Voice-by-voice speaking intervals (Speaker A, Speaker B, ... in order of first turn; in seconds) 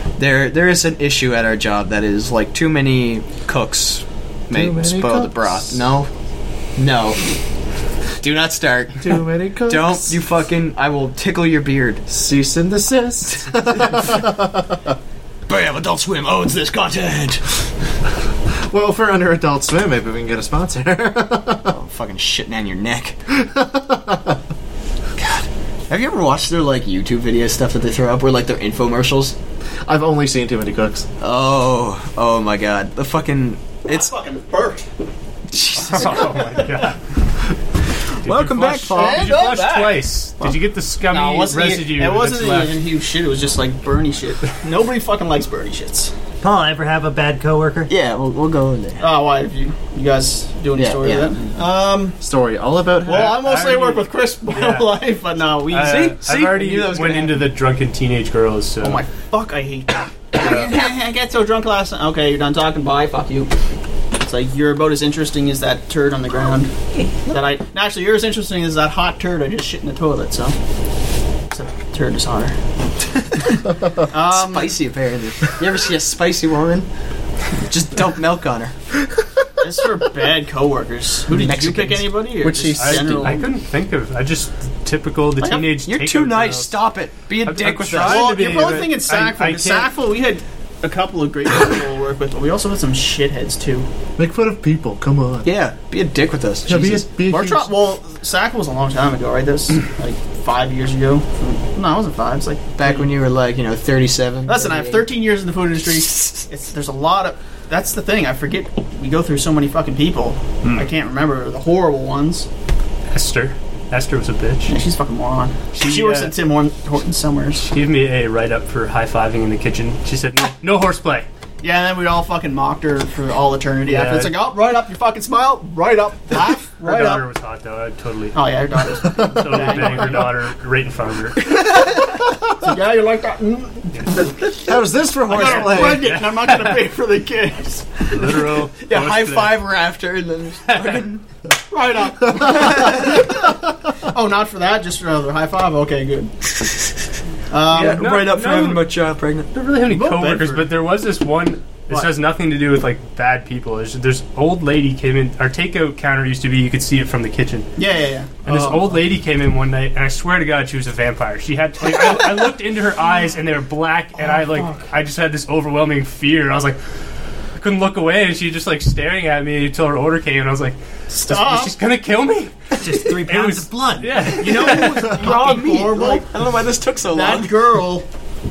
Speaker A: 0.2-6.1, 6.8-7.2, 8.2-12.0, 13.5-14.1, 15.5-17.7, 21.7-23.2, 25.2-29.4, 31.2-34.1, 35.5-36.4, 38.2-39.5, 47.9-49.1, 50.8-51.3, 55.8-57.4, 74.1-76.9, 77.6-78.7, 81.4-82.2, 85.8-88.4, 95.5-97.0, 102.8-105.1, 106.1-106.4, 138.8-141.2, 142.4-143.3, 147.7-149.5, 174.8-177.7
Speaker B: 4.5-5.8, 9.0-10.2, 12.1-14.8, 18.7-21.8, 23.3-24.4, 29.9-31.1, 52.2-53.4, 94.2-95.5, 96.7-97.7, 134.6-136.1
Speaker C: 33.9-34.9, 36.0-36.9, 38.9-40.0, 41.1-46.1, 49.0-52.2, 53.0-56.1, 58.8-63.5, 64.2-66.7, 67.2-70.6, 71.5-72.6, 74.0-74.8, 79.6-83.5, 85.4-85.7, 88.0-93.9, 97.3-103.1, 104.5-112.5, 114.7-117.7, 121.6-127.3, 128.3-130.3, 131.7-134.6, 135.3-138.4, 141.7-146.3, 147.5-148.1, 149.9-150.7, 157.8-159.0, 164.3-164.8, 171.1-171.8, 174.3-176.3, 177.1-178.1
Speaker D: 35.8-37.0, 38.2-42.8, 53.1-55.0, 55.7-59.0, 60.4-60.7, 82.4-86.7, 87.4-89.9, 113.1-114.8, 115.7-116.4, 117.6-121.3, 123.9-124.4, 126.8-128.4, 129.1-131.6, 133.9-134.2, 135.5-136.8, 138.1-139.6, 140.7-141.0, 147.7-148.8, 149.5-157.7, 158.4-166.8, 167.6-175.2
Speaker E: 46.4-47.9, 172.8-174.6